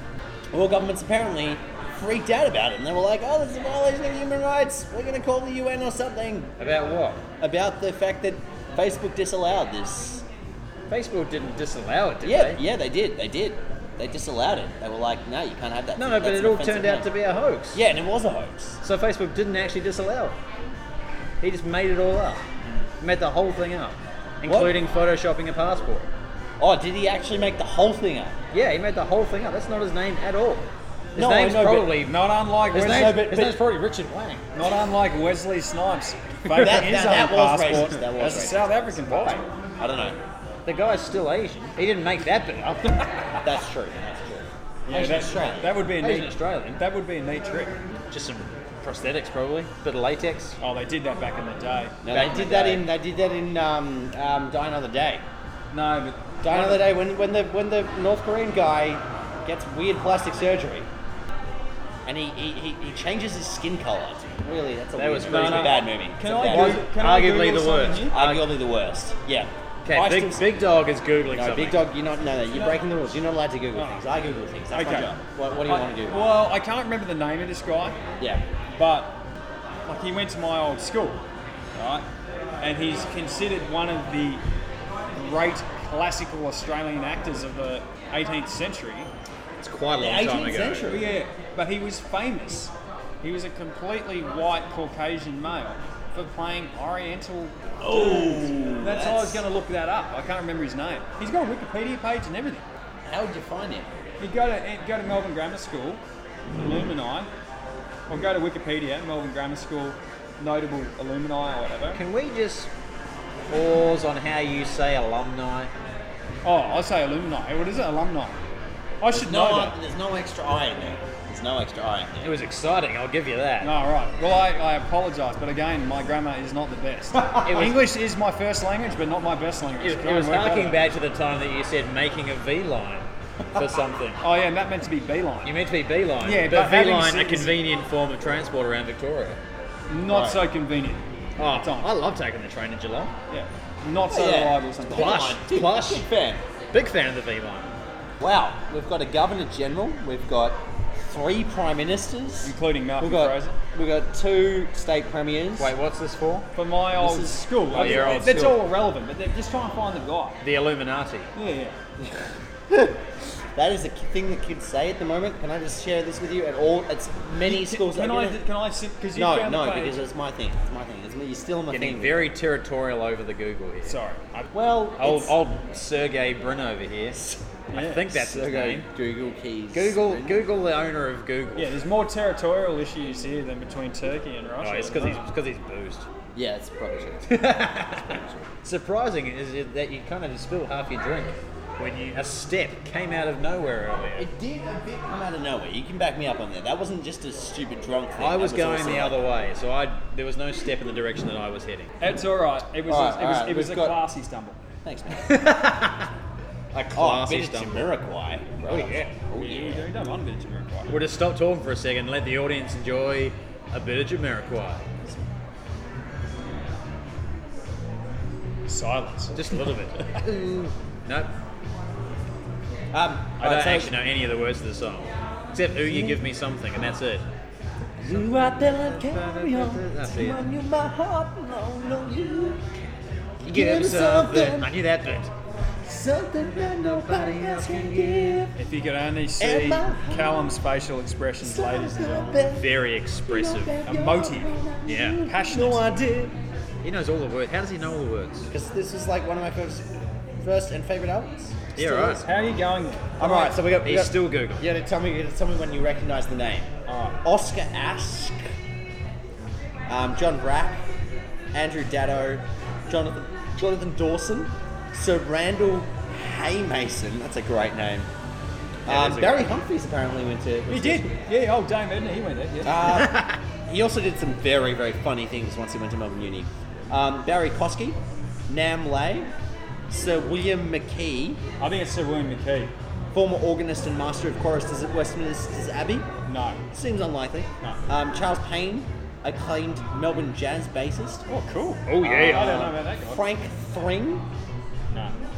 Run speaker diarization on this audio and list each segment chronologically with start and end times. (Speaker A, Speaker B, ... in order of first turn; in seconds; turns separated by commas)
Speaker A: 0.5-6.5, Speaker B: 6.6-7.2, Speaker A: 7.4-10.2, Speaker B: 10.9-12.6, Speaker A: 12.2-17.1, Speaker B: 16.0-17.8, Speaker A: 17.7-18.8, Speaker B: 18.8-20.4, Speaker B: 21.4-22.4, Speaker B: 23.0-26.1, Speaker A: 24.4-24.8, Speaker A: 26.6-28.4, Speaker B: 28.5-34.4, Speaker A: 31.1-32.0, Speaker C: 32.0-33.3, Speaker A: 32.7-33.6, Speaker C: 34.5-39.4, Speaker A: 36.5-38.9, Speaker B: 39.0-39.4, Speaker A: 39.8-40.2, Speaker B: 40.6-43.5, Speaker A: 43.4-45.9, Speaker C: 44.9-47.8, Speaker B: 46.0-46.8, Speaker B: 48.1-50.6, Speaker C: 50.6-52.0, Speaker A: 52.0-55.2, Speaker B: 52.1-52.9, Speaker C: 55.7-56.9, Speaker A: 56.4-60.9, Speaker A: 62.0-66.8, Speaker B: 65.0-65.9, Speaker C: 65.3-68.2, Speaker B: 66.4-68.5, Speaker A: 68.1-69.5, Speaker B: 69.8-71.8, Speaker C: 69.9-70.5, Speaker A: 71.3-76.2, Speaker C: 72.5-72.8, Speaker C: 73.7-74.0, Speaker C: 74.7-75.1, Speaker C: 75.6-78.0, Speaker A: 78.2-78.4, Speaker C: 78.7-79.2, Speaker C: 79.8-81.2, Speaker C: 81.8-82.0, Speaker C: 82.6-84.4, Speaker C: 85.1-89.1, Speaker B: 89.6-90.8, Speaker A: 90.0-91.1, Speaker C: 90.8-102.6, Speaker A: 97.8-99.4, Speaker A: 103.0-104.0, Speaker C: 104.2-106.0, Speaker C: 106.6-107.3, Speaker C: 108.1-112.0, Speaker B: 111.9-112.7, Speaker B: 113.5-115.7, Speaker C: 116.4-118.4, Speaker C: 119.0-119.7, Speaker A: 119.1-122.3, Speaker B: 122.2-123.7, Speaker C: 123.6-130.8, Speaker B: 127.4-127.9, Speaker B: 129.8-134.2, Speaker C: 134.2-135.5, Speaker B: 135.4-139.4, Speaker C: 136.2-137.5, Speaker C: 139.9-141.9, Speaker A: 140.1-140.4, Speaker B: 141.4-143.1, Speaker C: 143.3-145.3, Speaker A: 144.1-146.4, Speaker B: 144.9-146.1, Speaker B: 146.7-147.7, Speaker A: 148.2-155.7, Speaker C: 152.4-153.5, Speaker B: 155.6-156.5, Speaker C: 156.5-160.4, Speaker A: 157.0-158.5, Speaker B: 157.7-158.6, Speaker B: 160.4-161.3, Speaker C: 161.3-161.8, Speaker A: 162.0-163.0, Speaker A: 163.5-168.4, Speaker C: 167.4-170.0, Speaker A: 169.1-172.3, Speaker B: 171.7-173.9, Speaker C: 173.8-174.5, Speaker A: 174.5-175.3, Speaker B: 175.0-178.9, Speaker C: 177.7-178.1, Speaker A: 178.1-180.4, Speaker B: 179.7-181.8, Speaker C: 181.6-185.3, Speaker B: 184.6-186.1, Speaker A: 186.3-187.4, Speaker B: 187.2-194.2, Speaker A: 194.2-199.2, Speaker B: 198.2-201.9, Speaker C: 202.0-204.6, Speaker A: 202.9-204.0, Speaker A: 204.8-205.3, Speaker B: 205.1-206.1, Speaker B: 206.7-207.8, Speaker A: 206.9-209.9, Speaker B: 208.6-209.1, Speaker C: 209.3-211.0, Speaker B: 210.9-214.8, Speaker C: 218.7-219.4, Speaker B: 219.3-221.3, Speaker A: 222.9-223.9, Speaker B: 223.4-227.2, Speaker A: 225.8-226.2, Speaker A: 228.0-232.7, Speaker B: 228.0-230.4, Speaker A: 233.4-234.7, Speaker B: 233.4-235.3, Speaker A: 235.8-238.6, Speaker B: 236.6-238.4, Speaker C: 238.6-242.4, Speaker A: 239.4-240.4, Speaker A: 241.4-246.3, Speaker B: 242.6-243.8, Speaker C: 243.8-245.8, Speaker B: 244.8-245.2, Speaker B: 246.8-248.5, Speaker A: 248.5-252.2, Speaker B: 251.8-252.2, Speaker C: 252.2-253.5, Speaker A: 253.2-256.7, Speaker B: 253.8-254.6, Speaker C: 256.9-257.2, Speaker A: 257.2-258.4, Speaker A: 259.9-260.8, Speaker A: 261.5-268.1, Speaker A: 268.8-271.1, Speaker B: 268.9-269.5, Speaker C: 270.7-272.9, Speaker A: 272.6-279.3, Speaker B: 272.9-273.4, Speaker A: 279.9-281.4, Speaker C: 281.6-282.7, Speaker A: 283.1-286.1, Speaker C: 286.2-286.6, Speaker A: 286.7-291.2, Speaker C: 291.3-293.2, Speaker B: 291.9-292.7, Speaker A: 292.0-294.3